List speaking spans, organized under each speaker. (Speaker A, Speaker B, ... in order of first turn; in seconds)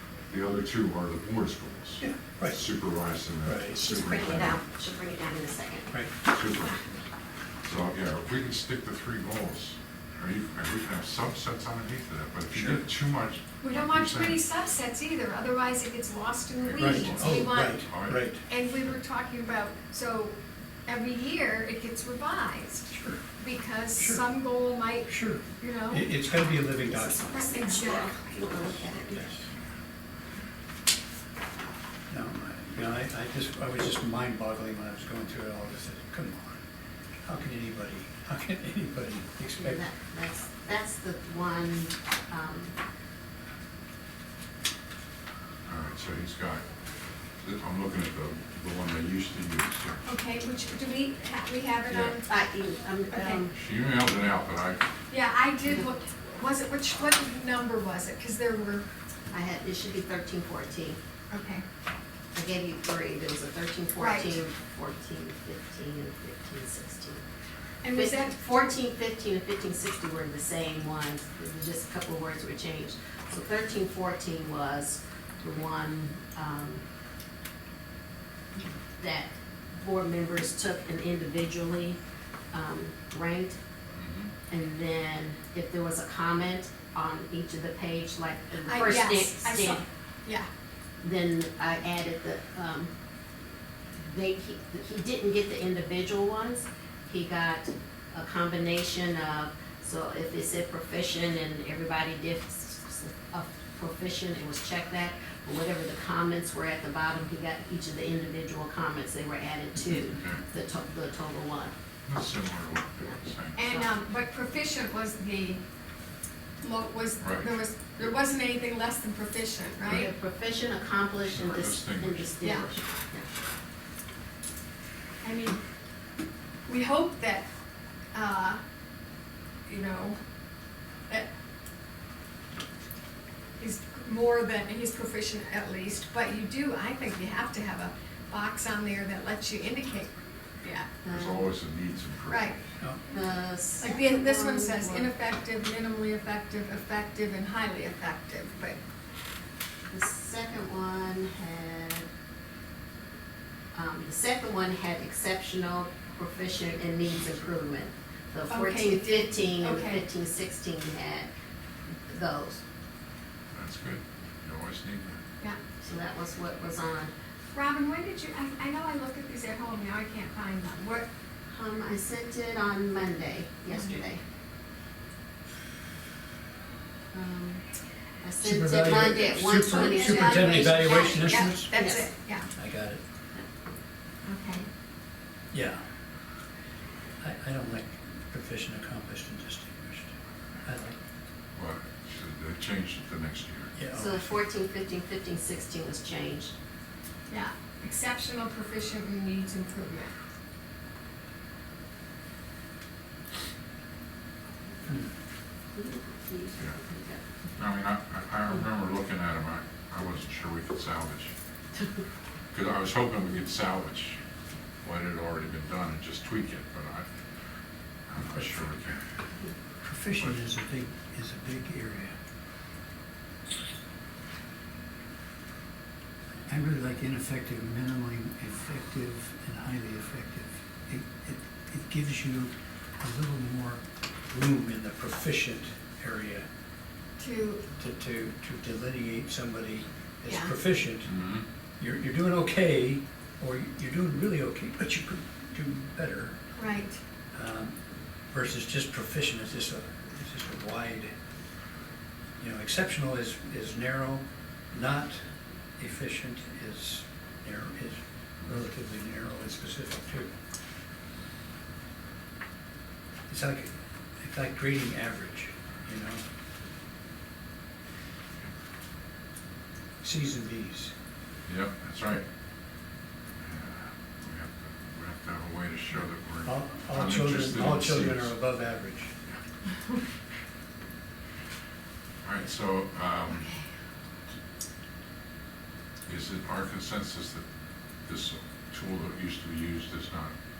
Speaker A: 0.3-4.6, 6.2-6.8, 7.6-14.4, 16.6-19.0, 45.7-46.6, 47.4-50.0, 51.9-52.2, 53.5-54.8, 83.9-84.3, 109.9-110.4, 112.0-113.6, 117.2-117.6, 119.8-120.1, 121.3-122.4, 141.1-142.5, 163.5-165.2, 191.6-193.7, 207.6-211.3, 212.5-214.2, 214.8-217.1, 218.1-219.0, 220.1-220.5, 241.0-241.4, 271.5-272.2, 273.4-278.3, 282.2-283.5, 286.1-287.4, 288.1-290.3
Speaker B: 2.0-2.6, 3.4-3.9, 12.5-12.8, 16.8-18.4, 22.9-23.2, 23.9-24.2, 25.1-27.3, 32.1-36.6, 37.2-39.8, 178.4-181.8, 182.6-183.0, 185.5-185.8, 187.2-191.0, 193.7-194.3, 219.8-222.1, 226.5-236.4, 237.8-241.1, 241.8-246.4, 247.3-247.7, 248.3-251.1, 252.4-255.2, 255.8-260.3, 263.3-266.2, 270.0-270.9, 276.4-279.1
Speaker C: 3.7-6.0, 26.9-29.4, 39.6-42.8, 52.2-53.5, 59.3-61.0, 62.3-67.2, 67.9-76.8, 79.0-82.0, 82.5-83.6, 84.5-89.8, 91.0-92.9, 94.0-111.7, 113.0-113.9, 119.8-123.3, 141.0-141.5, 143.1-145.1, 149.9-152.1, 153.7-161.3, 162.1-162.6, 165.8-167.1, 171.5-174.2, 177.1-177.6, 178.2-182.1, 193.9-196.5, 205.7-207.5
Speaker D: 13.6-17.9, 18.5-22.9, 23.4-26.1, 27.1-28.2, 50.0-52.3, 53.1-53.4, 55.1-58.9, 61.3-61.6, 64.0-64.4, 67.8-68.6, 88.7-90.5, 113.5-115.6, 116.6-120.1, 122.4-122.7, 125.2-125.6, 126.7-127.5, 128.1-128.6, 129.7-130.2, 133.6-140.9, 142.3-142.6, 143.8-148.8, 158.5-160.0, 167.5-171.1, 173.7-173.9, 179.4-182.4, 184.2-184.7, 197.3-200.1, 237.2-237.6, 240.2-240.5, 246.6-247.0